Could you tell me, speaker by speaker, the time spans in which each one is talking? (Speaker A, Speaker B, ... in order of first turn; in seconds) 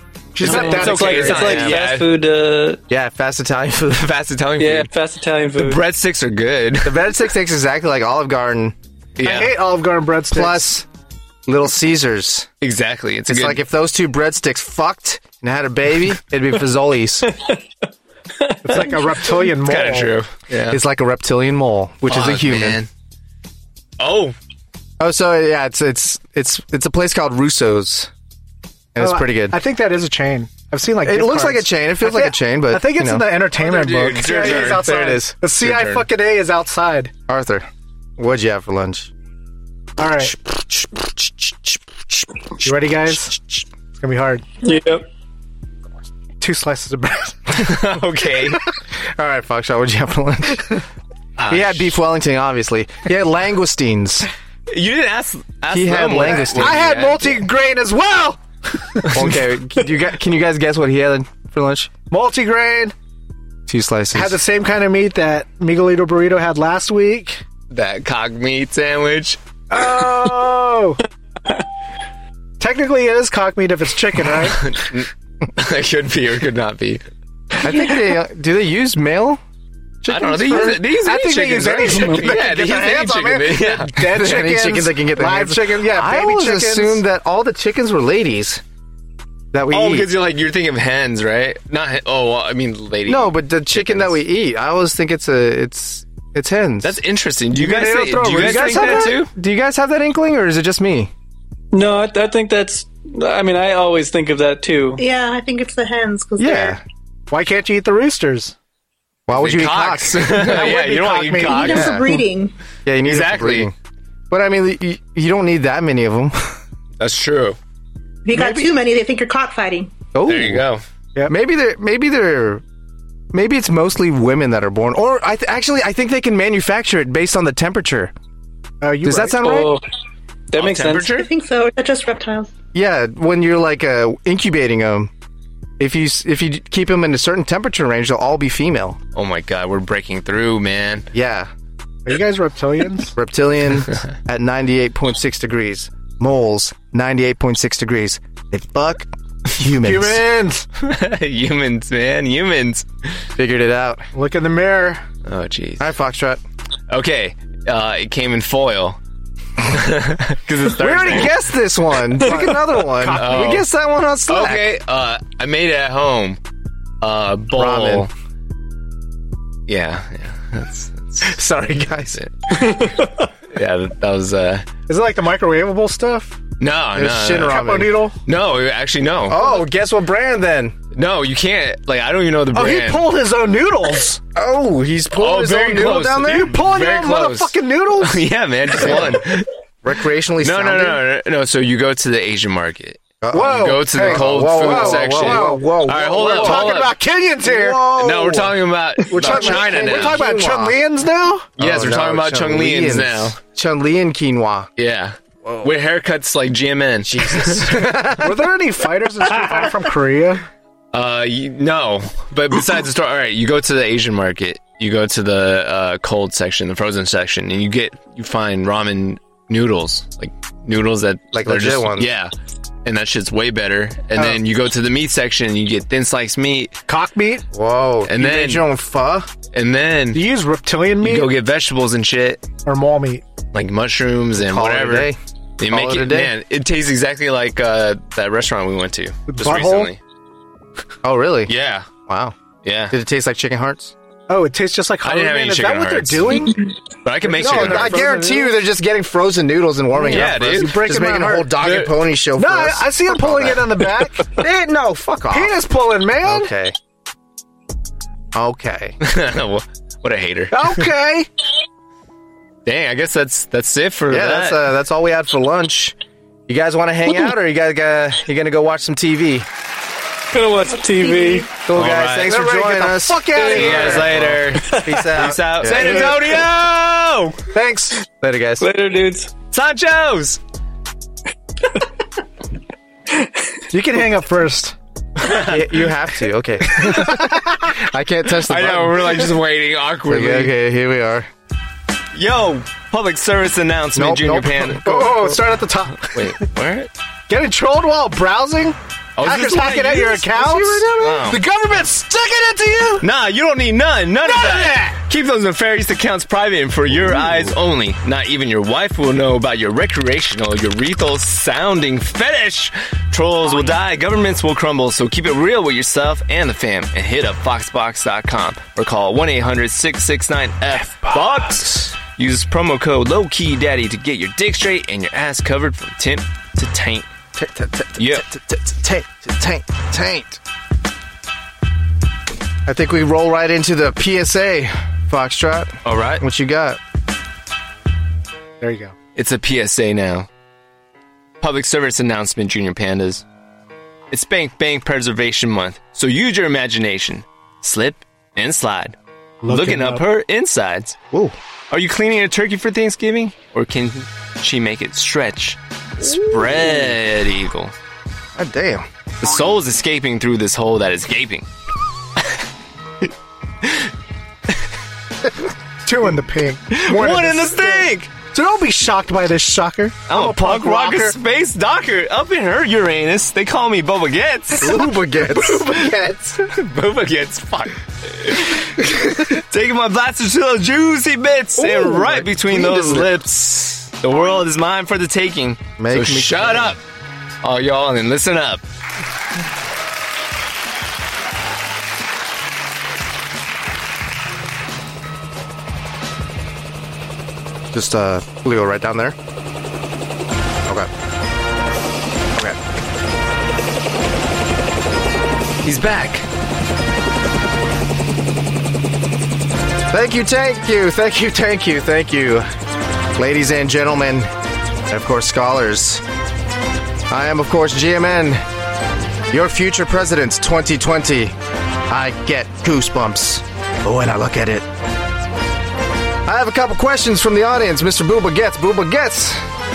Speaker A: 0.3-1.7, 9.2-10.7, 18.6-20.1, 29.0-37.1, 40.0-40.4, 42.6-43.3, 44.0-44.5, 46.4-47.7, 56.2-59.1, 62.1-62.9, 64.1-67.4, 69.7-71.0, 72.6-74.7, 80.2-87.0, 97.5-99.1, 107.3-108.5, 110.4-112.1, 128.8-129.4, 142.1-143.2, 149.8-150.7, 154.1-155.0, 162.2-163.6, 174.9-176.4, 177.4-178.2, 182.5-184.2, 186.2-188.2, 193.3-197.9, 199.1-201.5, 208.2-210.4, 226.9-227.4, 230.1-231.3, 232.7-233.2, 239.3-239.9, 244.3-246.7, 247.2-248.5, 250.0-251.5, 252.4-254.3, 255.3-256.5, 260.5-261.3, 272.2-274.2, 277.5-278.0, 283.7-284.8, 286.8-287.1, 294.8-296.3, 297.3-303.1, 304.2-305.0, 338.6-338.9, 349.4-350.1, 365.9-371.2
Speaker B: 0.4-2.1, 4.0-4.9, 5.6-7.0, 9.2-9.6, 12.6-13.6, 19.6-20.8, 22.1-22.9, 24.0-24.3, 33.6-34.9, 35.6-36.1, 47.5-48.6, 51.4-52.0, 54.7-57.4, 67.7-69.4, 74.4-77.0, 80.1-83.9, 89.7-94.1, 96.8-99.3, 109.3-112.0, 113.0-113.7, 117.0-117.6, 120.3-120.8, 130.6-131.3, 139.2-141.1, 150.8-153.2, 155.3-155.9, 156.9-159.0, 159.6-161.4, 163.1-163.7, 164.3-166.4, 167.0-168.1, 169.7-171.4, 172.1-172.8, 173.5-174.7, 176.6-177.6, 178.3-179.5, 180.9-183.1, 185.2-189.5, 190.4-193.0, 193.5-197.0, 197.9-200.2, 201.6-203.4, 204.8-207.8, 210.9-222.3, 222.8-226.8, 228.1-228.7, 229.5-230.2, 231.0-232.4, 233.5-240.0, 241.5-241.9, 242.6-242.9, 245.0-246.5, 247.0-248.0, 250.0-250.8, 251.6-251.9, 259.0-260.6, 262.7-264.6, 271.7-272.4, 273.4-277.4, 279.5-280.4, 285.2-285.7, 288.3-290.5, 292.1-294.9, 296.1-296.9, 299.2-300.2, 301.0-301.4, 303.0-327.1, 328.0-328.2, 335.9-336.2, 339.2-340.3, 341.4-343.2, 344.1-351.0, 351.7-357.7, 359.2-361.5, 363.6-363.9, 366.7-368.1, 370.1-386.8, 387.4-388.6, 405.6-406.3
Speaker C: 0.4-2.8, 4.6-5.8, 44.6-45.1, 101.7-105.0, 129.4-129.8, 130.5-131.2, 172.7-173.1, 270.3-271.5, 274.6-275.2, 278.6-279.4
Speaker D: 2.9-4.1, 6.8-8.8, 10.3-10.9, 11.5-12.5, 13.3-17.3, 20.7-22.8, 25.0-28.1, 28.9-29.6, 31.0-33.3, 34.1-35.4, 37.3-39.1, 40.2-42.3, 43.1-43.6, 49.2-50.9, 51.5-54.3, 55.7-56.8, 59.1-61.9, 63.7-64.4, 77.6-79.4, 80.0-80.8, 84.0-88.6, 89.5-90.1, 93.1-97.0, 98.2-101.1, 106.4-106.8, 109.3-110.7, 111.7-112.0, 112.9-113.7, 114.3-116.6, 118.3-118.7, 120.1-120.7, 121.3-122.6, 123.3-128.1, 129.0-129.7, 132.7-135.1, 135.8-139.0, 141.1-141.5, 143.2-150.2, 153.4-154.1, 155.8-156.4, 160.7-164.7, 167.5-168.1, 171.2-172.2, 176.9-178.0, 179.3-180.8, 184.3-186.5, 188.7-189.2, 189.8-191.0, 193.2-196.8, 197.4-200.8, 201.6-204.7, 205.4-205.7, 207.1-208.5, 221.3-222.1, 227.5-229.3, 234.3-236.3, 241.0-241.5, 242.1-242.3, 242.9-243.9, 247.3-255.6, 256.2-256.8, 258.3-259.0, 264.1-266.0, 266.5-269.5, 271.6-276.2, 278.2-278.7, 285.3-289.3, 290.1-291.3, 293.9-295.4, 300.2-301.3, 327.4-330.4, 332.7-336.8, 356.0-356.9, 358.4-358.9, 374.6-375.9, 381.6-383.1, 385.8-386.8, 397.7-399.2, 409.9-412.5, 413.2-414.3, 414.9-416.0, 417.1-418.4, 419.3-421.4, 421.9-424.7, 426.2-429.4
Speaker E: 105.0-106.8, 111.4-112.5, 118.2-120.0, 131.1-132.5, 270.9-271.5